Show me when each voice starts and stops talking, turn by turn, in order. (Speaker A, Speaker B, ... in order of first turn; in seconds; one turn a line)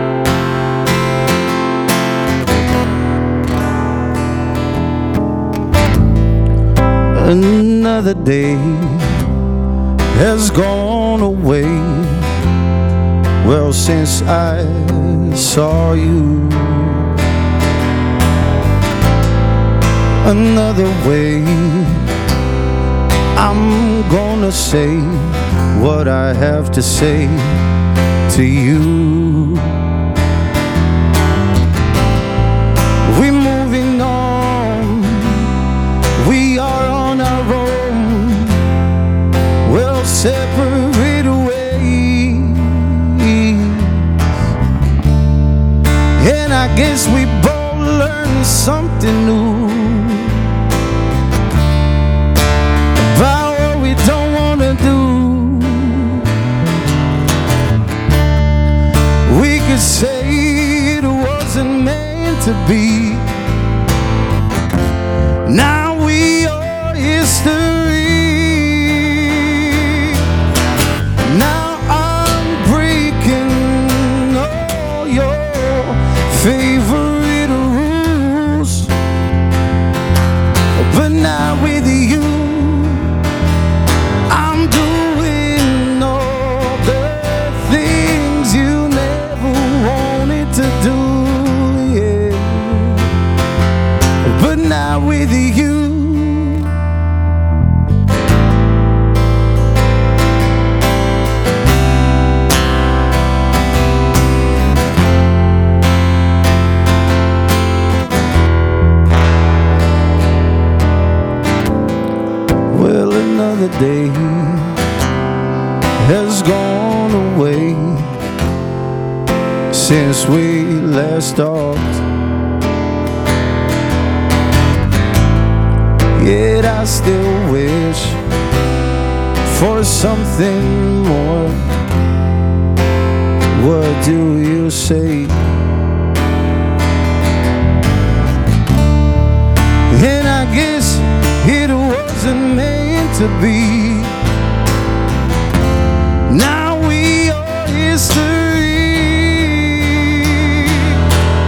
Speaker A: 7.1-9.3
Speaker A: 10.1-12.3
Speaker A: 13.4-17.1
Speaker A: 20.2-22.1
Speaker A: 23.4-27.6
Speaker A: 28.3-29.8
Speaker A: 33.0-35.6
Speaker A: 36.2-38.7
Speaker A: 39.6-44.3
Speaker A: 46.2-50.6
Speaker A: 53.0-56.4
Speaker A: 59.3-63.3
Speaker A: 65.5-70.3
Speaker A: 71.2-78.9
Speaker A: 80.8-83.2
Speaker A: 84.3-93.1
Speaker A: 94.2-96.8
Speaker A: 112.7-114.8
Speaker A: 116.0-118.2
Speaker A: 119.7-122.0
Speaker A: 126.2-128.2
Speaker A: 129.4-131.7
Speaker A: 133.5-135.5
Speaker A: 139.9-144.1
Speaker A: 146.3-151.1